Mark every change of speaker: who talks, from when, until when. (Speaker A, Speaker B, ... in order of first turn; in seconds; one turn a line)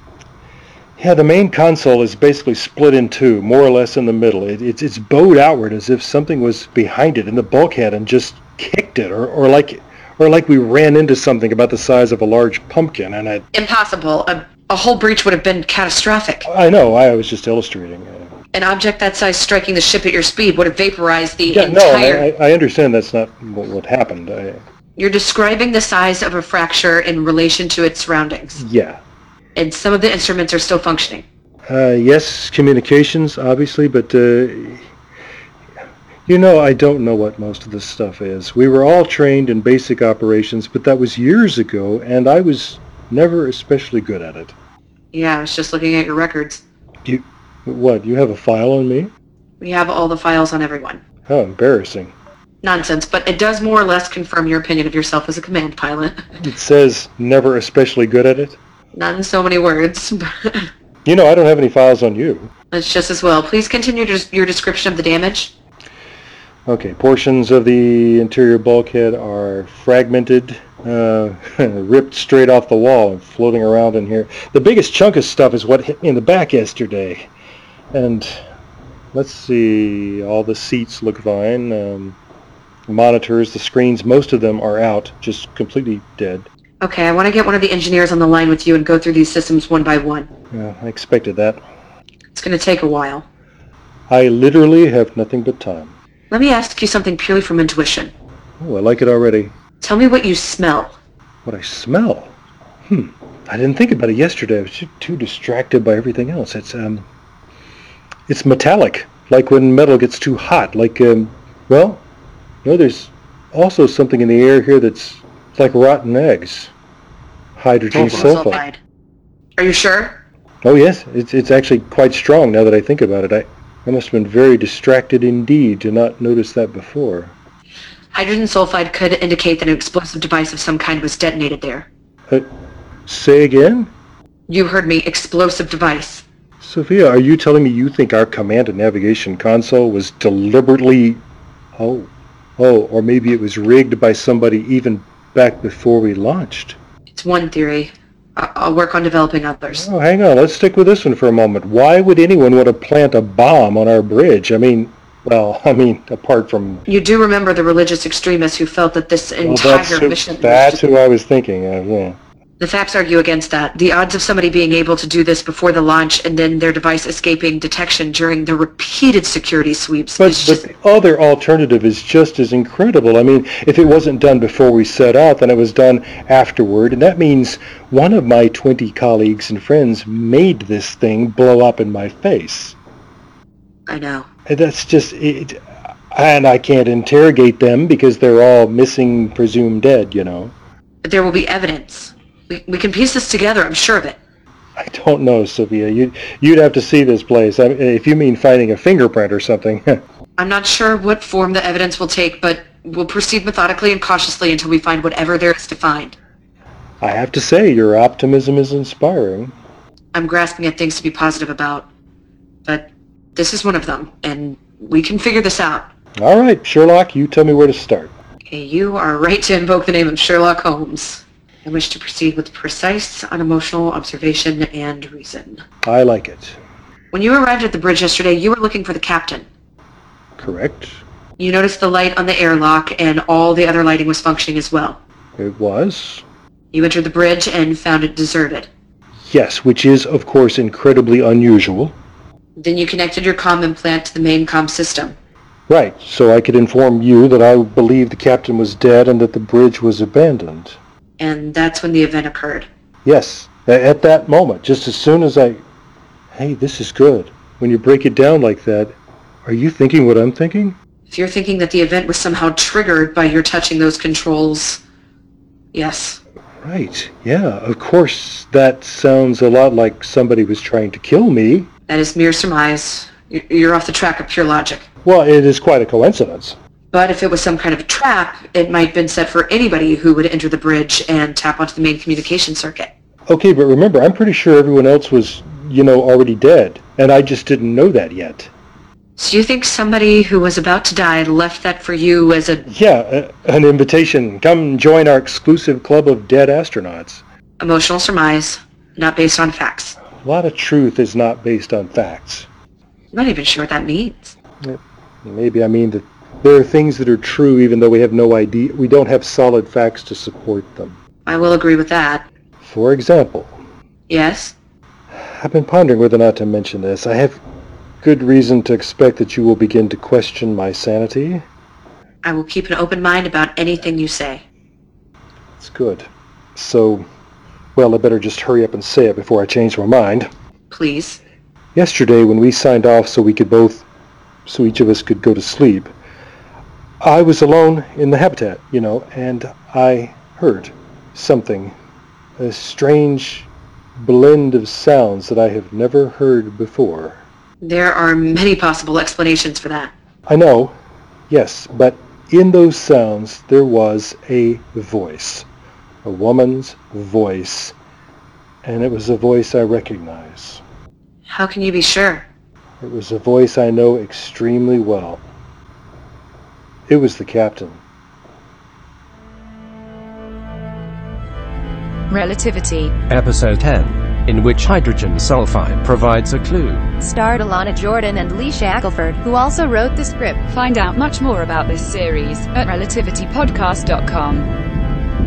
Speaker A: 1.0-13.4
Speaker B: 13.5-16.5
Speaker A: 16.4-18.3
Speaker B: 18.5-22.3
Speaker A: 21.5-24.6
Speaker B: 24.9-28.6
Speaker A: 28.6-29.0
Speaker B: 29.5-31.2
Speaker A: 31.7-34.9
Speaker A: 36.3-44.5
Speaker B: 45.1-46.6
Speaker A: 47.0-49.1
Speaker B: 49.6-51.0
Speaker A: 51.3-52.1
Speaker B: 52.6-56.2
Speaker A: 56.4-58.6
Speaker B: 58.9-60.7
Speaker A: 61.0-62.5
Speaker B: 62.7-65.5
Speaker A: 66.7-77.3
Speaker A: 77.9-78.4
Speaker A: 79.1-82.2
Speaker A: 82.9-86.5
Speaker B: 86.8-90.3
Speaker A: 90.5-91.6
Speaker B: 92.3-93.2
Speaker A: 94.1-95.9
Speaker B: 96.3-98.1
Speaker A: 98.6-99.5
Speaker B: 99.8-100.9
Speaker A: 101.5-102.3
Speaker A: 102.9-107.0
Speaker A: 108.3-112.0
Speaker A: 112.6-116.7
Speaker A: 117.6-118.6
Speaker B: 117.9-118.8
Speaker B: 119.6-120.2
Speaker A: 120.6-127.3
Speaker B: 128.1-131.9
Speaker A: 133.1-133.9
Speaker B: 134.5-136.2
Speaker A: 136.6-141.2
Speaker A: 141.8-146.8
Speaker B: 147.1-149.9
Speaker A: 149.7-156.8
Speaker B: 156.9-160.8
Speaker A: 159.4-162.2
Speaker B: 162.6-170.6
Speaker A: 170.2-182.8
Speaker B: 183.9-184.3
Speaker A: 184.5-185.6
Speaker A: 186.1-190.5
Speaker B: 191.0-194.2
Speaker A: 194.8-200.0
Speaker B: 200.4-206.2
Speaker A: 207.0-209.6
Speaker B: 210.1-211.9
Speaker B: 212.6-215.9
Speaker A: 216.2-218.1
Speaker B: 218.5-225.6
Speaker A: 225.8-226.6
Speaker B: 227.1-229.5
Speaker A: 230.4-231.0
Speaker B: 231.4-235.0
Speaker A: 235.4-236.2
Speaker B: 236.7-238.7
Speaker A: 239.3-242.0
Speaker B: 242.6-245.2
Speaker A: 245.7-250.8
Speaker B: 251.2-252.7
Speaker A: 253.0-255.6
Speaker A: 256.3-260.8
Speaker B: 261.1-264.8
Speaker B: 265.7-266.2
Speaker A: 266.6-271.7
Speaker B: 271.9-274.8
Speaker A: 275.0-276.6
Speaker B: 276.9-282.9
Speaker A: 283.3-288.5
Speaker B: 289.2-292.6
Speaker A: 292.7-297.2
Speaker B: 297.6-300.0
Speaker A: 300.2-302.5
Speaker B: 303.1-304.3
Speaker A: 304.6-311.0
Speaker B: 311.2-312.2
Speaker A: 312.6-313.6
Speaker B: 314.1-314.5
Speaker A: 315.1-317.4
Speaker A: 318.0-321.4
Speaker B: 322.2-324.4
Speaker A: 325.6-327.0
Speaker A: 327.8-330.3
Speaker B: 330.7-331.2
Speaker A: 331.7-333.8
Speaker A: 334.4-335.9
Speaker A: 337.0-341.7
Speaker A: 342.4-347.2
Speaker B: 347.6-349.9
Speaker A: 350.3-350.7
Speaker A: 351.3-355.5
Speaker A: 356.0-357.7
Speaker A: 358.6-360.6
Speaker B: 361.3-362.3
Speaker A: 362.8-365.2
Speaker A: 366.9-367.8
Speaker C: 372.1-372.9
Speaker D: 373.1-376.9
Speaker E: 377.0-380.4
Speaker C: 380.5-384.5